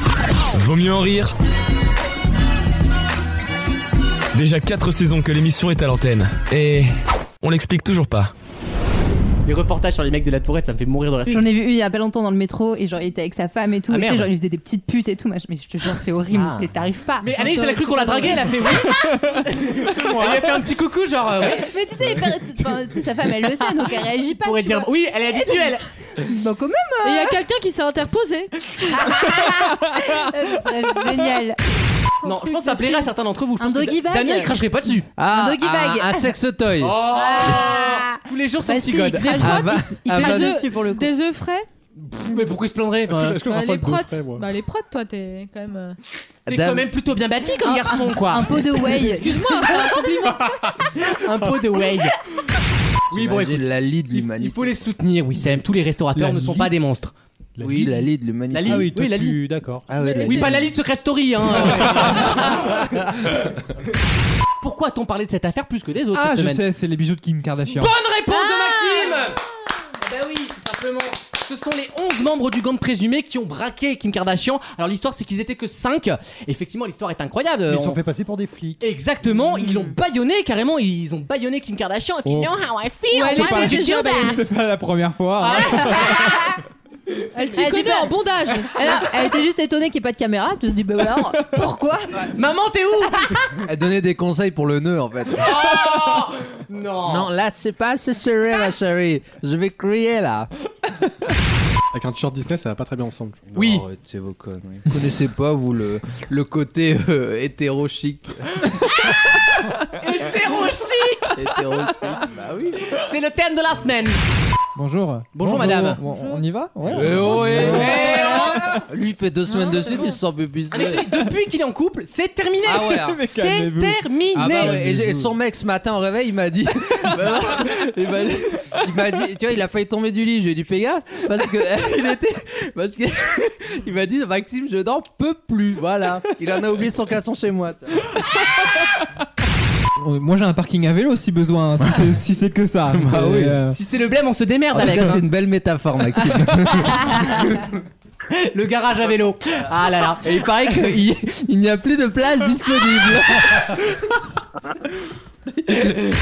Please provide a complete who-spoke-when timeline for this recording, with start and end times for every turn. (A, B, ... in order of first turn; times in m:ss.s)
0:00.5-0:01.3 A
0:04.3-0:08.3 A
0:09.4-0:11.4 B
0:11.3-0:19.0 C
0:13.9-0:14.3 B
0:16.3-0:16.7 B
0:17.2-0:21.7 B
0:17.9-0:18.4 D
0:21.4-0:24.9 C
0:24.4-0:25.8 B
0:26.2-0:27.4 C
0:27.0-0:29.1 D
0:28.9-0:31.6 C
0:32.2-0:33.1 D
0:32.2-0:35.1 B
0:33.6-0:34.6 C
0:35.2-0:37.2 E
0:35.2-0:36.3 C
0:36.8-0:39.4 B
0:37.0-0:41.1 C
0:39.1-0:41.7 D
0:39.3-0:40.6 E
0:42.1-0:43.4 B
0:43.1-0:44.5 F
0:43.4-0:46.0 D
0:46.5-0:46.9 E
0:46.5-0:50.0 B
0:47.6-0:50.4 C
0:49.2-0:50.4 D
0:50.8-0:52.2 B
0:53.1-0:54.9 E
0:53.1-0:57.1 B
0:56.2-0:56.6 G
0:57.6-0:58.9 E
0:57.6-0:57.9 H
0:58.5-0:59.4 B
0:58.7-0:59.4 G
0:59.0-0:59.8 H
0:59.9-1:00.7 E
0:59.9-1:00.7 D
1:00.2-1:03.1 B
1:04.6-1:06.6 B
1:06.1-1:08.0 G
1:07.7-1:09.4 B
1:08.3-1:09.2 C
1:10.0-1:18.0 B
1:17.7-1:18.8 H
1:18.8-1:24.2 B
1:22.2-1:22.6 G
1:23.1-1:24.5 D
1:23.1-1:26.2 G
1:25.4-1:26.2 B
1:26.1-1:26.6 C
1:27.3-1:28.9 D
1:27.6-1:32.2 C
1:32.2-1:33.4 B
1:33.6-1:36.3 E
1:35.3-1:37.3 B
1:37.0-1:40.5 E
1:41.9-1:43.5 F
1:43.5-1:48.7 E
1:43.5-1:43.8 B
1:49.9-1:51.4 B
1:51.3-1:52.7 E
1:52.3-1:54.2 B
1:54.8-1:58.1 G
1:55.3-1:56.0 B
1:56.0-1:56.4 D
1:56.8-2:01.1 E
1:57.3-1:58.6 B
1:57.8-1:58.8 D
1:59.5-2:00.2 D
2:00.7-2:04.8 B
2:02.6-2:03.2 E
2:03.0-2:05.3 G
2:04.3-2:18.2 E
2:20.0-2:23.8 G
2:22.9-2:23.6 E
2:23.7-2:25.2 B
2:24.7-2:27.4 E
2:28.3-2:30.4 B
2:30.2-2:33.8 E